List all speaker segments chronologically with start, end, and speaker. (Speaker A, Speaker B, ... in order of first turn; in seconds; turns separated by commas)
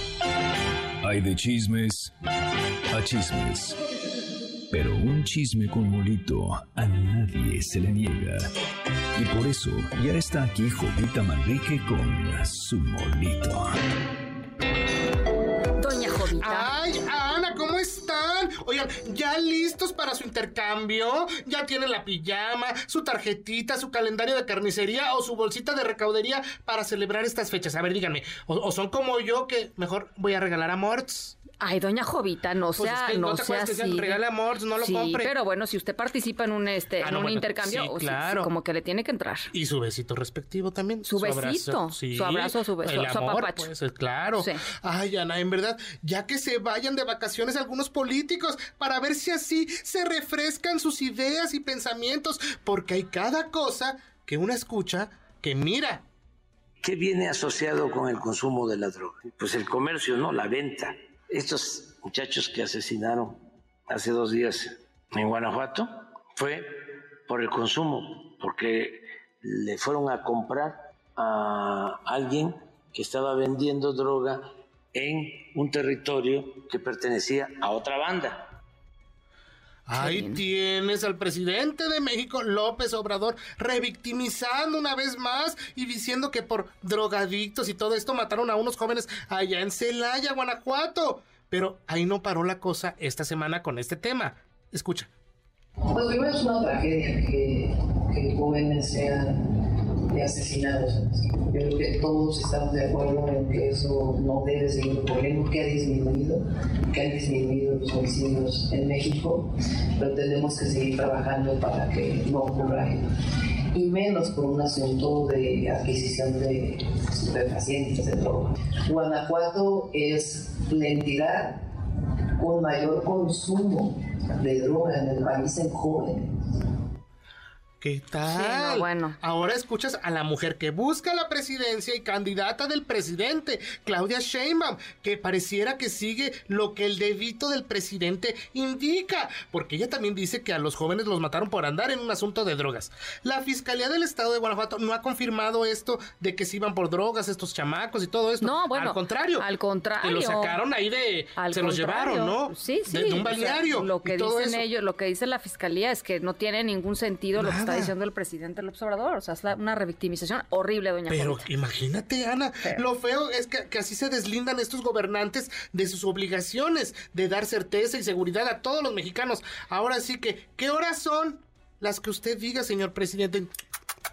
Speaker A: 1.0-2.1, Speaker A: 2.9-3.8, Speaker A: 4.7-8.4, Speaker A: 9.1-13.7, Speaker B: 15.8-16.7, Speaker C: 16.4-31.4, Speaker B: 31.6-34.2, Speaker C: 32.8-35.3, Speaker B: 34.8-39.5, Speaker C: 37.0-38.5, Speaker C: 39.5-56.0, Speaker B: 41.0-43.7, Speaker B: 44.4-44.6, Speaker D: 56.8-63.3, Speaker D: 63.9-66.6, Speaker D: 67.3-74.4, Speaker D: 74.9-78.3, Speaker C: 79.9-95.1, Speaker B: 79.9-80.4, Speaker E: 95.9-113.0, Speaker E: 113.7-121.6, Speaker E: 122.3-126.5, Speaker C: 127.8-149.5, Speaker B: 128.3-129.2, Speaker B: 148.4-150.6, Speaker C: 150.0-154.7, Speaker B: 151.3-161.5, Speaker C: 157.3-157.9, Speaker C: 161.1-173.5